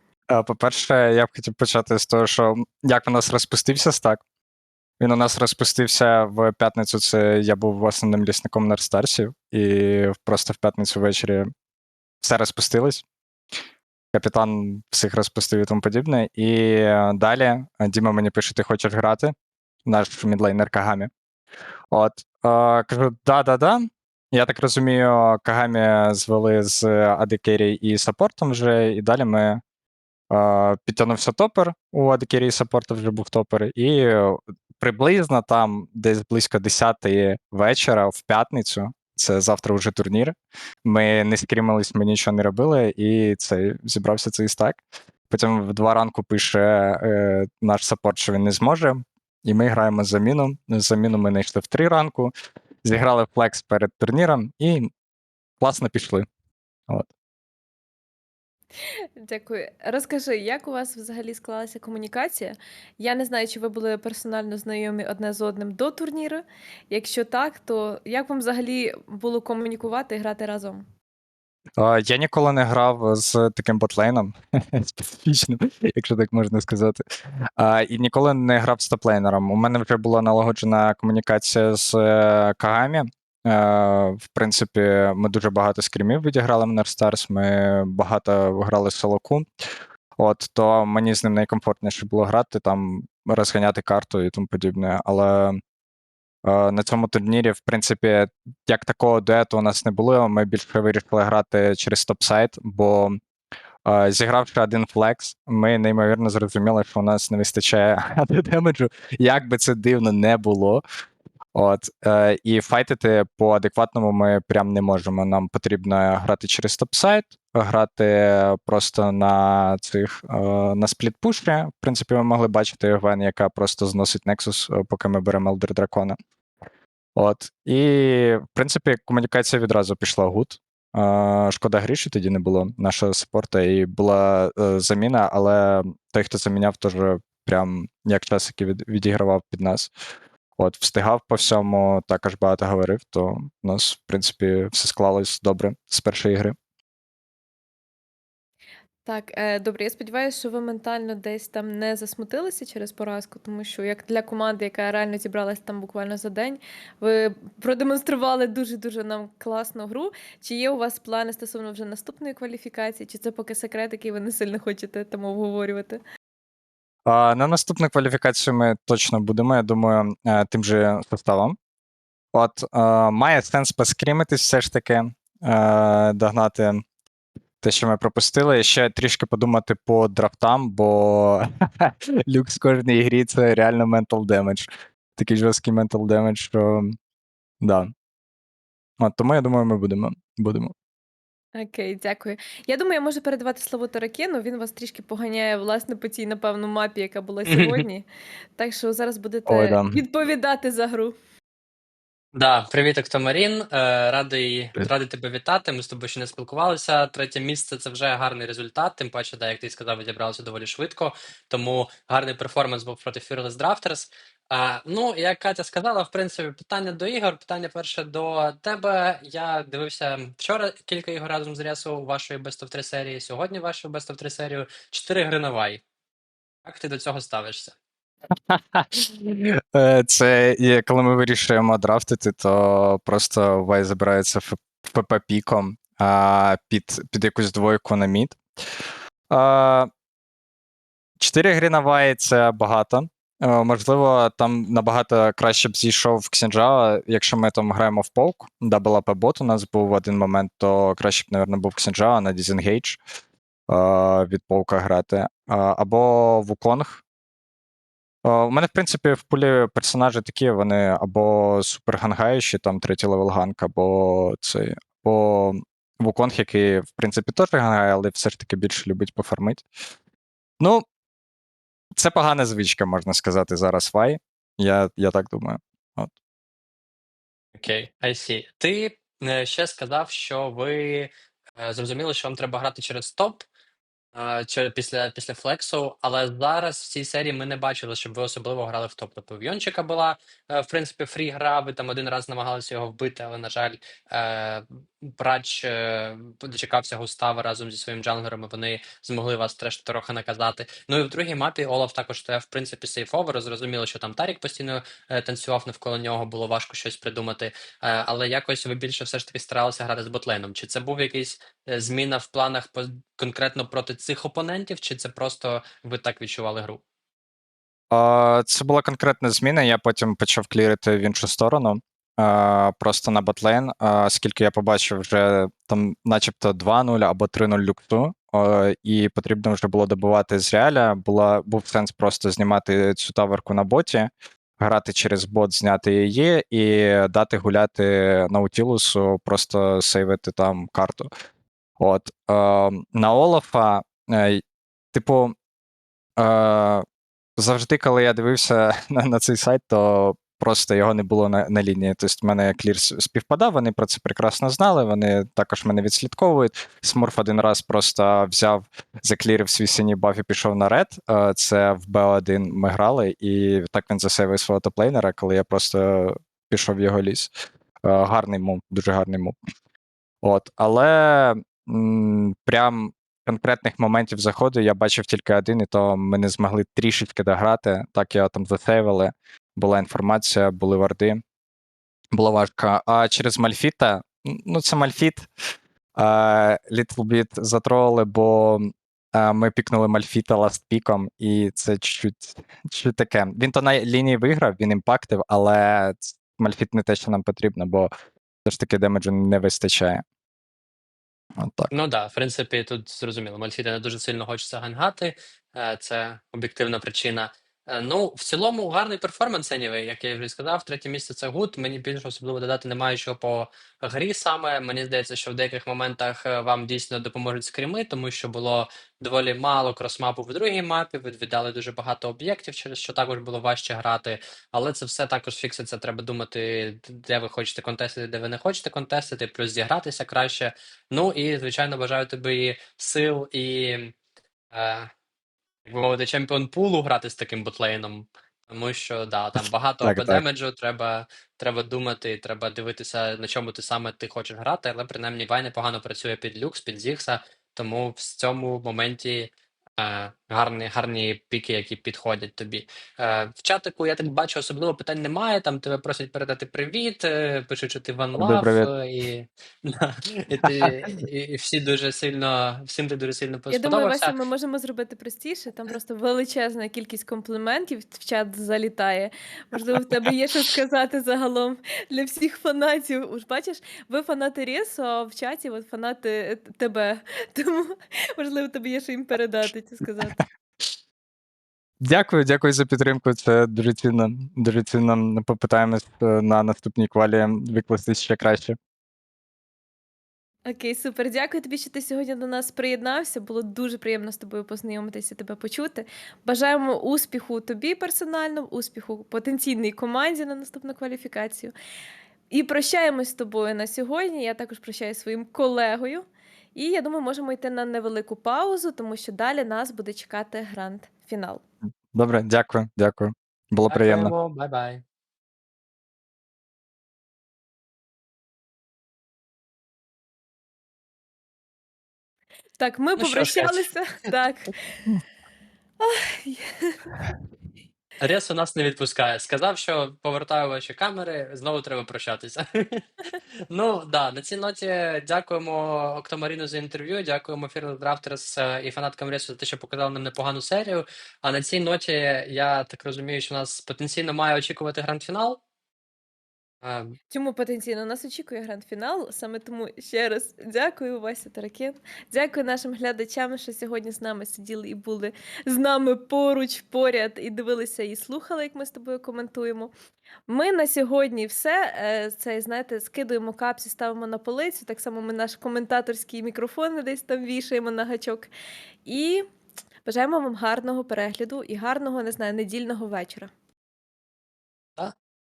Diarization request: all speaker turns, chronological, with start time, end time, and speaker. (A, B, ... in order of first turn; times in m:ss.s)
0:00.3-0:04.2 A
0:05.0-0:11.5 A
0:12.2-0:13.0 A
0:14.1-0:19.3 A
0:19.8-0:21.1 A
0:21.9-0:29.6 A
0:30.3-0:52.3 A
0:52.8-0:54.9 A
0:55.6-0:56.2 A
0:59.2-1:10.8 B
1:11.8-1:17.0 A
1:17.6-1:29.5 A
1:30.2-1:35.6 A
1:36.4-1:43.2 A
1:43.8-1:50.8 A
1:51.5-2:06.1 A
2:07.2-2:19.9 A
2:20.6-2:26.5 A
2:29.0-2:46.0 B
2:47.1-2:51.5 A
2:52.3-2:56.8 A
2:57.6-3:06.9 A
3:07.6-3:07.9 A
3:09.0-3:10.7 A
3:11.5-3:18.1 B
3:17.4-3:17.8 C
3:18.6-3:21.1 B
3:19.5-3:20.0 A
3:22.3-3:45.8 C
3:46.6-3:47.8 C
3:48.5-3:58.4 A
3:59.3-3:59.9 A
4:01.2-4:13.0 A
4:13.7-4:17.0 A
4:18.2-4:29.6 A
4:32.0-4:36.1 A
4:37.6-4:43.4 C
4:44.1-5:16.8 C
5:17.9-5:41.1 A
5:41.8-5:44.4 A
5:44.9-5:45.3 A
5:46.2-5:46.8 A
5:47.4-6:07.3 A
6:07.8-6:09.4 A
6:10.2-6:21.2 A
6:22.1-6:25.3 A
6:26.0-6:37.9 A
6:38.4-6:40.0 A
6:41.4-6:41.7 A
6:41.7-7:13.9 C
7:14.5-7:14.9 C
7:15.6-7:44.1 C
7:19.4-7:20.2 A
7:38.2-7:38.7 A
7:43.5-8:00.2 B
8:01.8-8:08.6 A
8:10.5-8:21.5 B
8:22.3-8:31.4 B
8:31.9-8:34.1 A
8:33.7-8:34.8 C
8:42.6-8:44.9 B
8:43.0-8:43.7 C
8:45.8-8:47.0 B
8:48.0-8:52.8 C
8:53.5-9:05.4 C
9:06.6-9:07.0 C
9:07.1-9:19.7 B
9:20.3-9:28.3 B
9:28.8-9:29.2 B
9:29.8-9:33.3 B